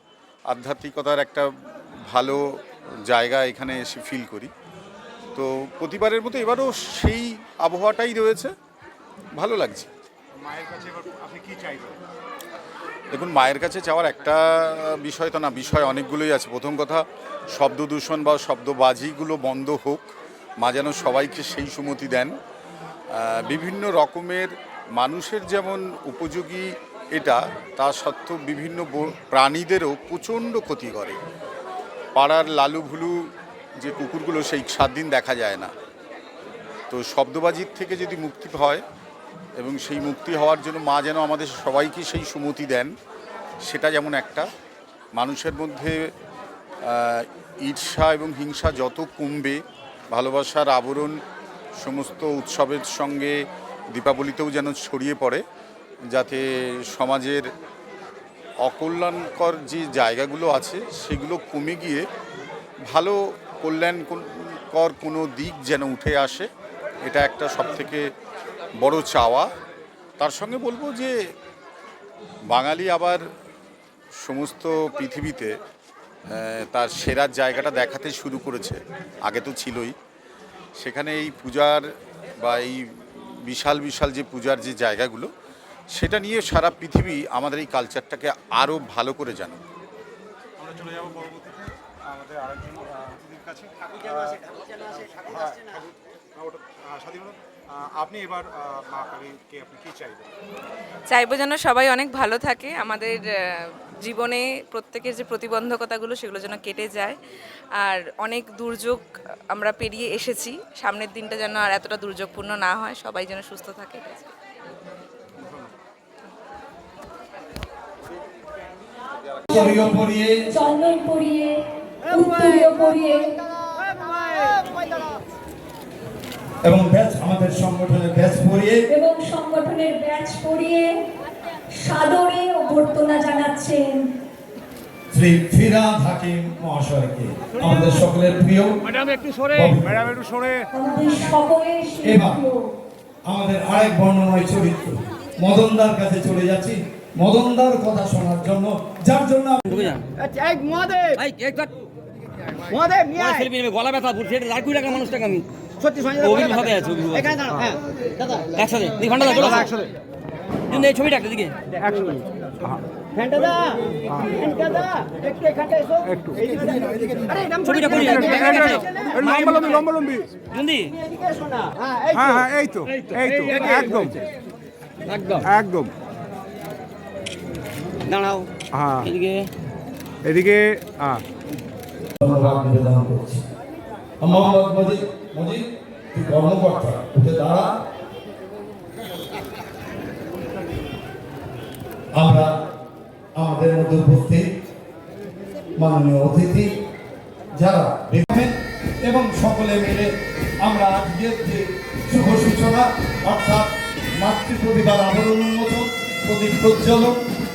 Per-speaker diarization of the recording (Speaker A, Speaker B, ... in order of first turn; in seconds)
Speaker A: 0.5-1.5, 2.1-2.4, 3.1-4.5, 5.3-8.5, 9.3-9.9, 13.1-17.0, 17.5-20.1, 20.6-22.3, 23.1-31.2, 32.1-33.1, 33.8-35.7, 36.9-38.8, 39.5-42.9, 43.6-44.5, 45.1-46.0, 46.8-49.6, 50.1-51.1, 51.8-53.3, 53.9-55.4, 56.1-57.4, 58.6-62.0, 62.9-66.5, 67.0-68.0, 68.8-69.5, 70.2-71.1, 72.5-73.2, 74.2-75.5, 76.3-79.9, 80.8-81.8, 82.4-82.8, 83.4-85.3, 85.9-89.6
Speaker B: 10.4-12.0, 90.6-100.3, 139.0-140.7, 159.3-159.9, 161.8-162.8, 164.1-164.3, 166.1-166.4, 168.0-170.3, 172.1-174.2, 175.4-175.9, 178.7-179.1, 180.2-181.2
Speaker C: 101.1-103.3, 104.0-107.2, 107.8-114.3
Speaker D: 119.5-119.8, 120.5-123.3, 128.9-131.0, 131.7-134.1, 140.7-142.6
Speaker E: 119.5-120.4, 126.6-128.8, 135.1-138.8, 139.5-140.0, 142.0-142.4, 143.2-149.8, 182.2-183.4, 184.2-187.8, 192.1-192.6, 193.3-194.5, 195.8-196.7, 197.5-200.1, 200.6-207.2
Speaker F: 149.7-150.0, 151.2-151.8, 153.1-155.4, 156.1-157.4, 158.5-159.7, 160.7-161.6, 167.5-169.8, 170.5-170.9, 175.2-175.4, 178.1-178.4, 179.0-179.5
Speaker G: 150.2-151.2, 152.7-153.3, 155.8-156.1, 157.5-158.4, 163.2-163.6, 164.4-166.0, 171.9-172.3